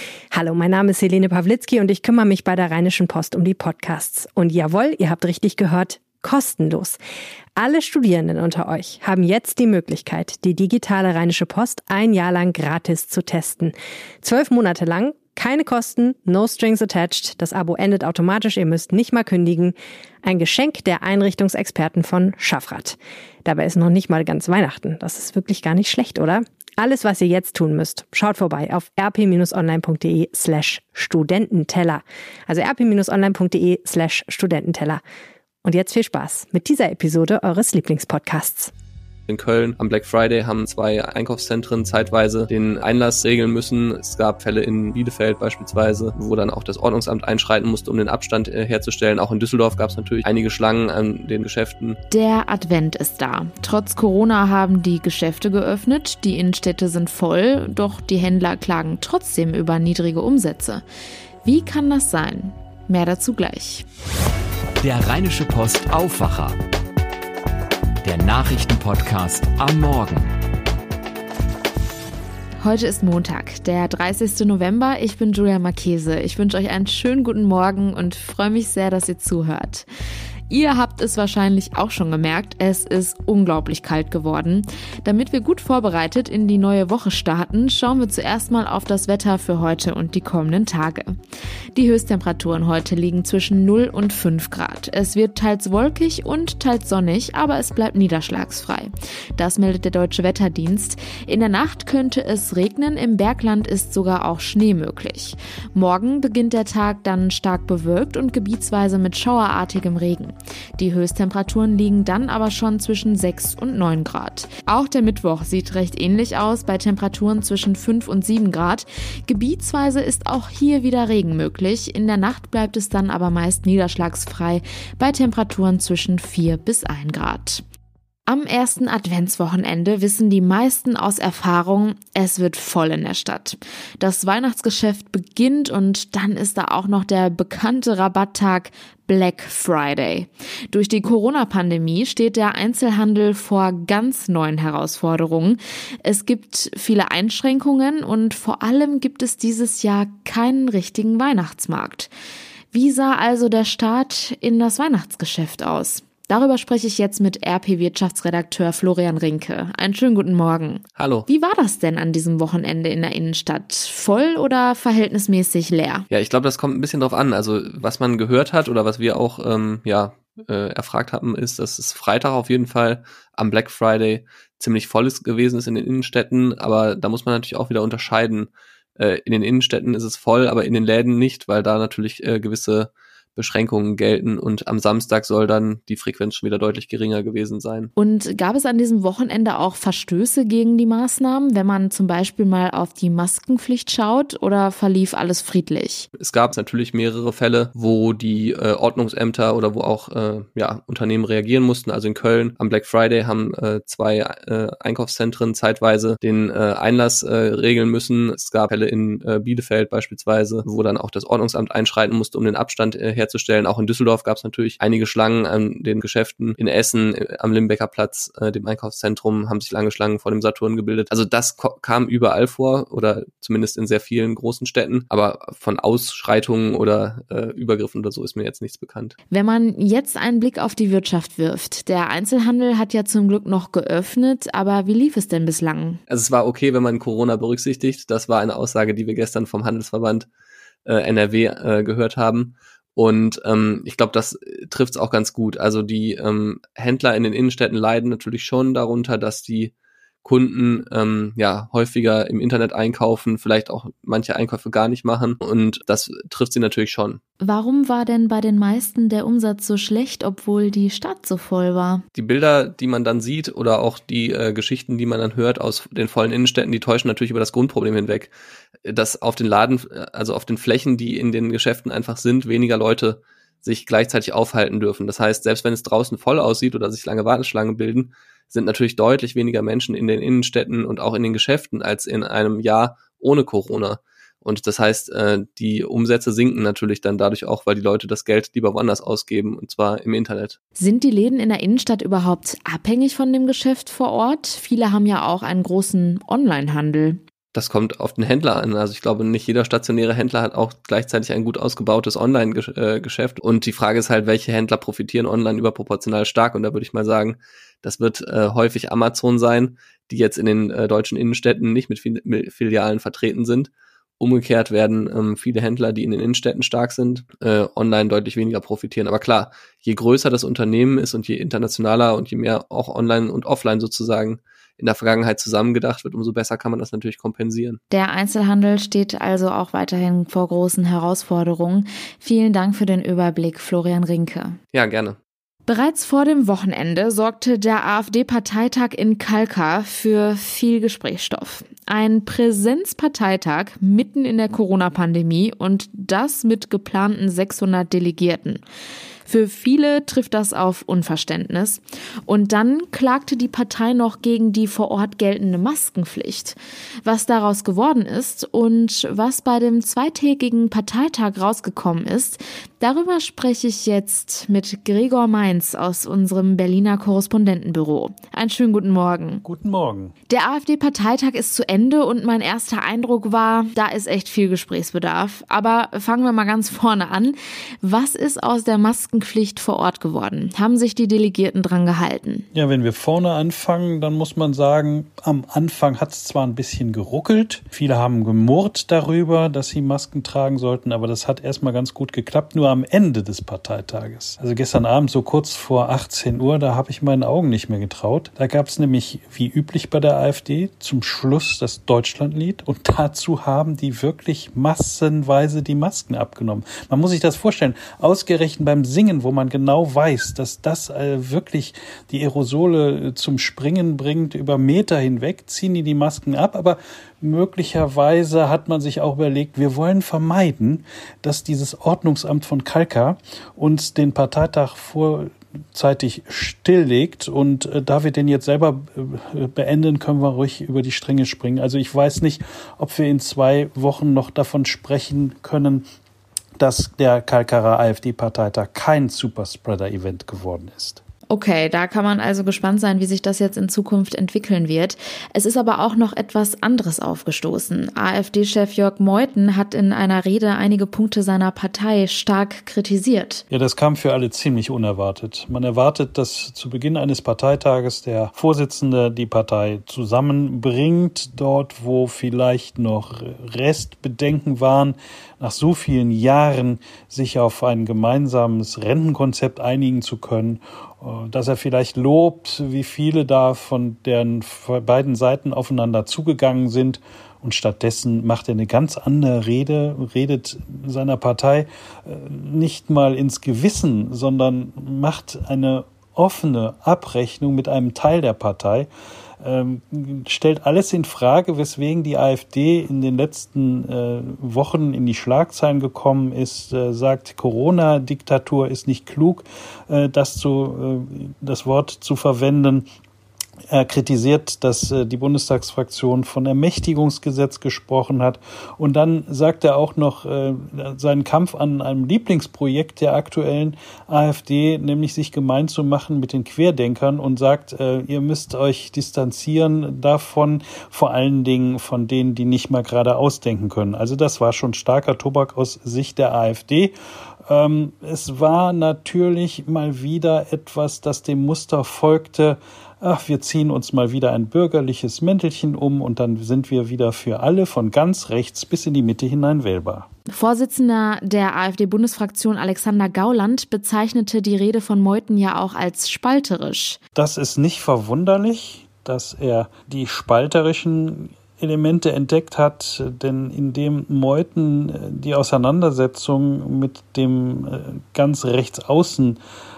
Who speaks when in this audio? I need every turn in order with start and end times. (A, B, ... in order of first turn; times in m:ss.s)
0:00.3-0:07.0 A
0:07.6-0:35.0 A
0:35.6-0:38.7 A
0:39.3-0:52.0 B
0:52.1-1:00.8 C
1:01.4-1:03.8 C
1:04.8-1:06.6 D
1:08.0-1:10.3 D
1:12.6-1:19.8 C
1:20.5-1:31.2 C
1:31.7-2:07.6 C
2:08.3-2:32.1 C
2:32.7-2:46.0 C
2:41.0-2:41.3 B
2:46.1-3:07.9 B
3:08.0-3:16.1 C
3:16.2-3:49.1 B
3:49.3-3:56.0 C
3:56.1-4:00.3 B
4:00.8-4:09.7 B
4:10.2-4:17.2 B
4:17.4-4:22.0 C
4:22.1-4:28.3 B
4:28.8-4:50.6 B
4:50.8-4:57.2 C
4:57.5-5:27.8 B
5:27.9-5:34.6 C
5:34.7-5:35.2 B
5:35.6-5:48.6 C
5:49.2-6:09.4 C
6:09.4-6:10.1 E
6:10.3-6:22.4 C
6:22.5-7:15.8 E
7:16.6-7:21.0 E
7:21.3-7:33.4 C
7:33.5-8:08.9 E
8:09.4-8:22.8 E
8:23.7-8:46.9 E
8:47.5-9:00.1 E
9:00.3-9:07.0 C
9:07.1-9:19.4 E